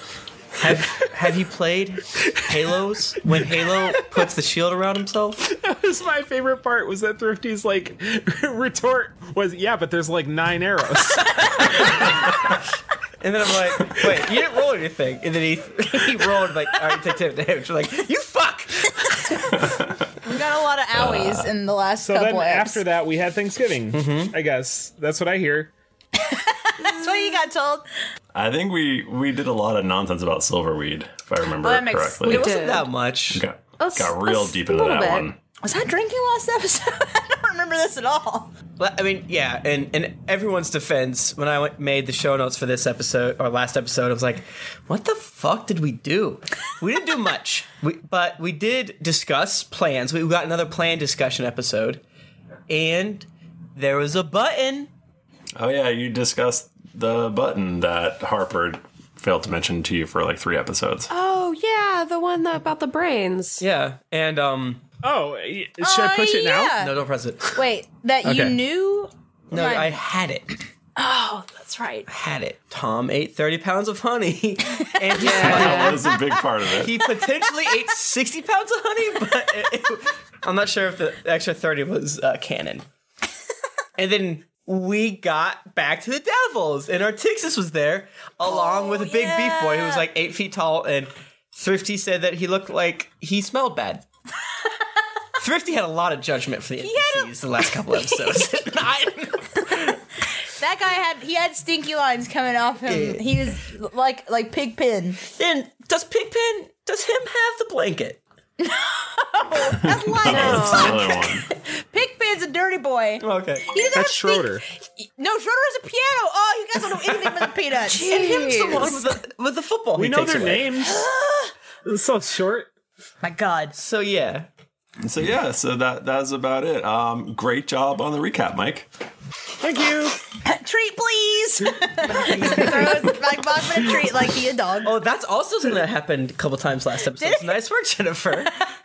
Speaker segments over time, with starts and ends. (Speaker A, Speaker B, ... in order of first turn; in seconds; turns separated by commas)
Speaker A: 0.6-5.4, Speaker B: 5.5-11.9, Speaker A: 13.2-19.3, Speaker C: 19.6-19.9, Speaker D: 20.2-22.8, Speaker C: 20.9-21.5, Speaker B: 22.0-25.7, Speaker A: 23.9-24.4, Speaker D: 26.2-27.9, Speaker C: 28.3-32.5, Speaker D: 31.6-32.6, Speaker E: 32.3-32.9, Speaker A: 32.3-33.4, Speaker C: 33.3-35.4, Speaker E: 33.8-35.3, Speaker D: 35.6-38.5, Speaker A: 38.8-52.0, Speaker A: 52.7-54.9, Speaker C: 55.6-61.1, Speaker E: 61.1-63.6, Speaker A: 63.6-64.8, Speaker B: 65.0-66.8, Speaker D: 65.8-66.9, Speaker A: 66.8-67.6, Speaker D: 67.5-69.9, Speaker A: 68.3-68.5, Speaker A: 69.5-70.5, Speaker D: 71.0-72.1, Speaker A: 72.1-76.0, Speaker D: 75.1-76.1, Speaker E: 75.2-76.0, Speaker C: 75.4-77.0, Speaker A: 76.7-82.8, Speaker A: 84.0-94.0, Speaker D: 88.5-90.0, Speaker A: 95.4-99.7, Speaker D: 96.8-99.9, Speaker D: 100.5-105.2, Speaker A: 102.9-103.4, Speaker A: 105.2-108.2, Speaker D: 108.6-118.5, Speaker C: 110.2-111.5, Speaker E: 110.2-111.1, Speaker A: 113.2-113.7, Speaker B: 113.9-114.6, Speaker A: 117.0-120.9, Speaker E: 117.9-119.1, Speaker B: 120.0-121.0, Speaker D: 121.1-121.4, Speaker B: 121.8-122.7, Speaker D: 123.2-123.7, Speaker A: 123.8-124.5, Speaker C: 125.0-128.9, Speaker B: 129.6-130.1, Speaker D: 130.4-134.9, Speaker A: 132.4-132.8, Speaker A: 134.8-138.5, Speaker D: 137.2-137.6